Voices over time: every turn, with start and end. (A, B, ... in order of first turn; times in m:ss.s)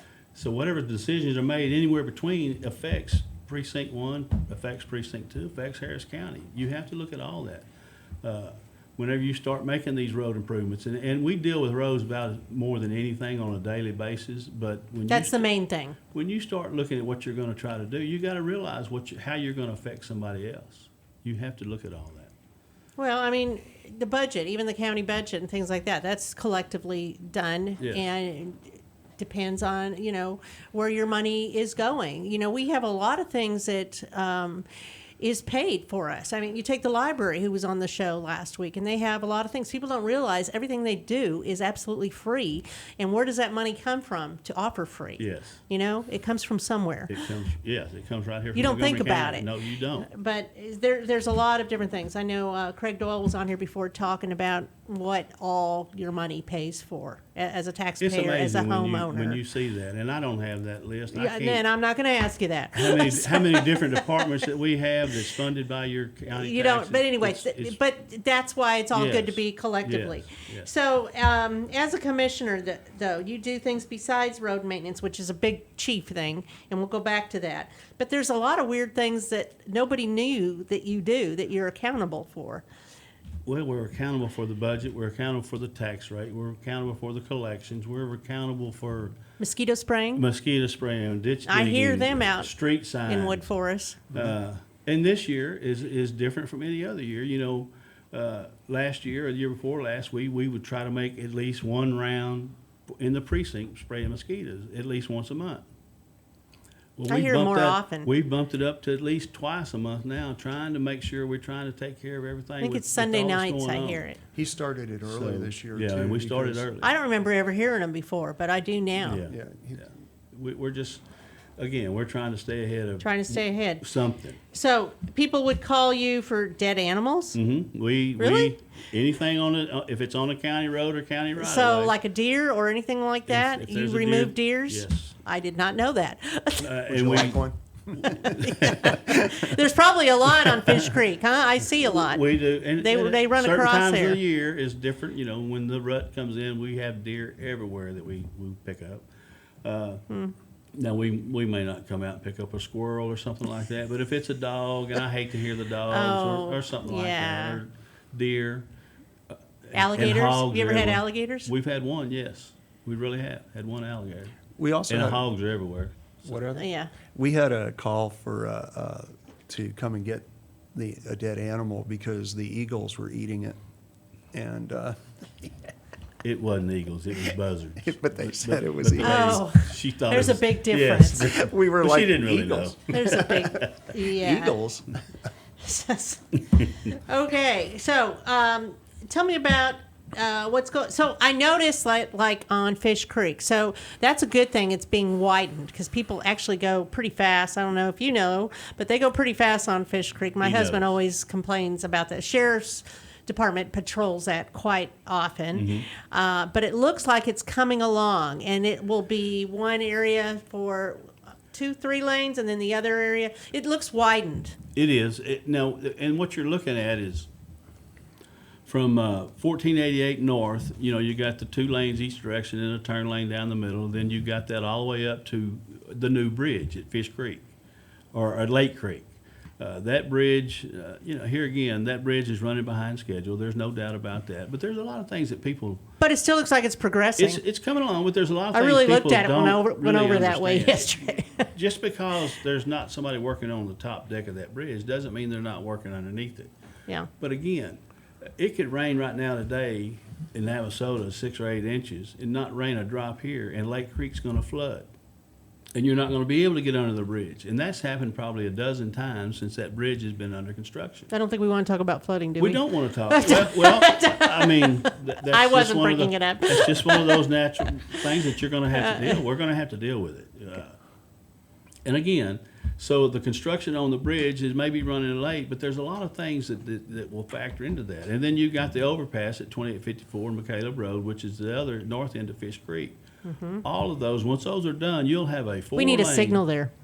0:00.3-0:07.7 A
0:08.2-0:15.5 A
0:15.1-0:16.0 B
0:16.1-0:22.3 A
0:23.0-0:28.6 B
0:27.8-0:28.0 A
0:29.2-0:34.7 B
0:35.2-0:47.1 B
0:45.2-0:45.6 A
0:47.1-0:50.1 A
0:48.6-0:59.4 B
0:58.0-1:01.6 A
1:01.1-1:04.5 B
1:02.8-1:07.8 A
1:06.3-1:22.6 B
1:08.9-1:10.7 A
1:23.4-1:29.2 A
1:29.4-1:30.2 B
1:30.2-1:33.5 A
1:31.5-1:32.5 B
1:33.1-1:34.1 B
1:34.1-1:45.6 A
1:47.0-1:54.0 A
1:47.1-1:48.1 B
1:52.6-1:54.2 B
1:54.3-1:56.7 C
1:55.0-1:56.9 A
1:56.8-1:59.2 B
1:59.0-2:01.0 A
1:59.3-1:59.8 C
2:01.6-2:04.4 A
2:03.0-2:03.8 B
2:04.5-2:07.4 B
2:07.3-2:11.9 A
2:08.2-2:08.6 B
2:11.4-2:16.7 B
2:13.3-2:15.2 A
2:16.6-2:19.3 A
2:16.9-2:17.6 C
2:18.0-2:22.2 B
2:21.8-2:29.0 A
2:22.8-2:24.2 B
2:29.6-2:30.0 A
2:30.8-2:38.7 A
2:35.9-2:37.6 B
2:39.3-2:44.4 A
2:39.7-2:41.5 B
2:44.6-2:45.2 C
2:44.9-2:46.1 A
2:46.2-2:53.6 C
2:46.5-2:46.9 B
2:54.3-2:55.5 C
2:56.2-3:03.9 A
2:57.8-2:59.4 C
2:59.0-3:01.3 B
3:01.2-3:05.0 C
3:02.9-3:04.6 B
3:05.6-3:31.0 B
3:20.4-3:20.9 A
3:25.5-3:25.9 A
3:31.5-3:34.6 B
3:34.8-3:37.3 A
3:38.6-3:47.4 A
3:48.1-3:49.1 A
3:49.6-3:55.8 A
3:56.0-3:57.4 B
3:57.2-4:01.0 A
3:58.5-4:01.5 B
4:01.5-4:06.5 A
4:07.2-4:07.8 A
4:08.4-4:14.9 A
4:15.8-4:21.1 A
4:21.1-4:27.3 B
4:22.4-4:30.8 A
4:28.7-4:29.2 B
4:31.8-4:43.0 A
4:43.2-4:43.6 B
4:43.6-4:46.4 A
4:45.8-4:46.7 B